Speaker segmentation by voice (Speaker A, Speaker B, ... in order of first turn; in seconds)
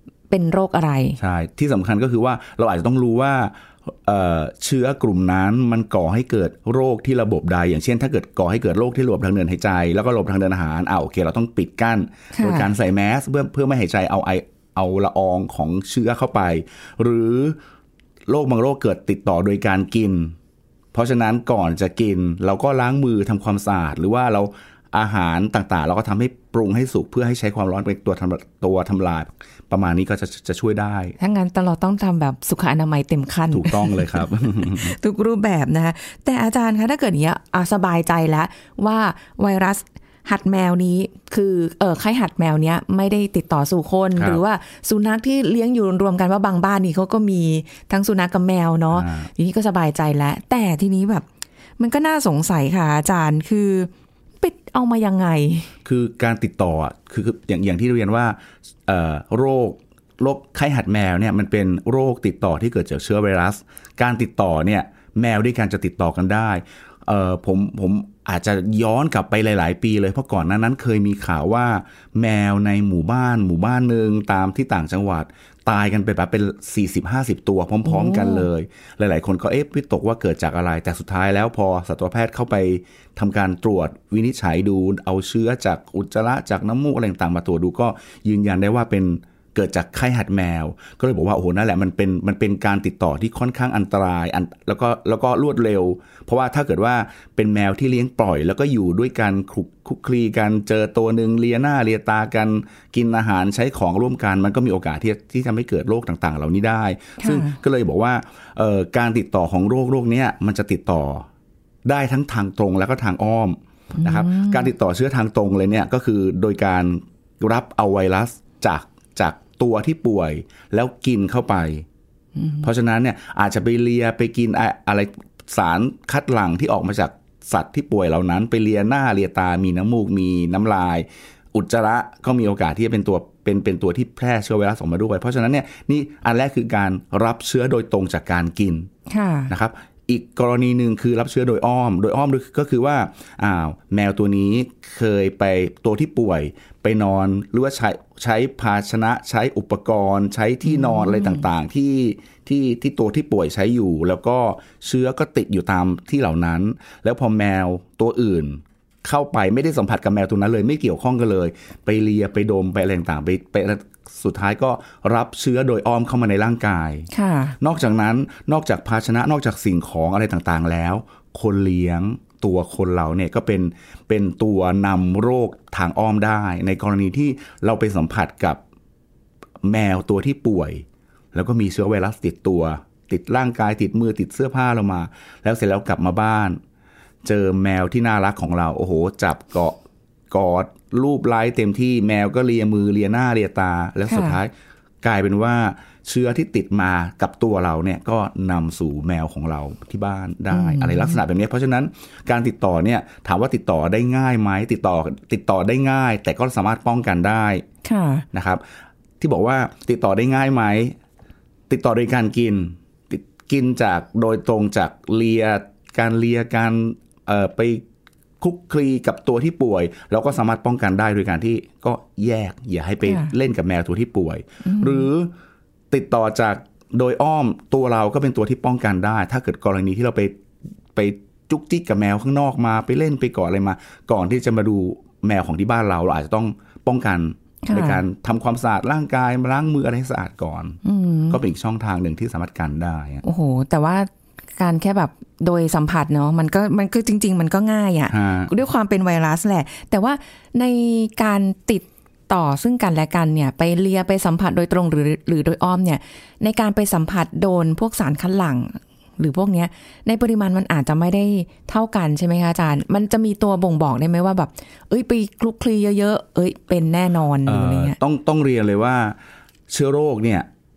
Speaker A: 0.3-1.2, 12.3-12.7, 31.2-51.2, 51.8-53.9, 54.4-55.7, 77.8-78.5, 107.2-107.6, 113.9-114.7, 122.3-122.7, 139.1-139.5, 150.6-151.4, 167.1-167.5, 194.1-194.4, 200.5-201.2, 207.8-208.2, 223.0-223.3, 224.6-225.1, 237.6-238.0, 240.8-241.4, 243.2-268.0
Speaker B: 1.2-17.6, 18.3-20.4, 20.9-31.1, 33.5-35.0, 44.1-44.4, 48.9-49.3, 55.8-111.3, 111.8-121.8, 122.6-138.9, 139.5-167.1, 167.6-178.6, 179.6-186.6, 187.2-189.8, 190.3-207.6, 208.3-208.6, 209.2-211.0, 211.7-217.8, 218.4-225.3, 225.9-230.3, 230.9-243.2, 248.1-248.5, 267.4-269.2, 269.7-270.5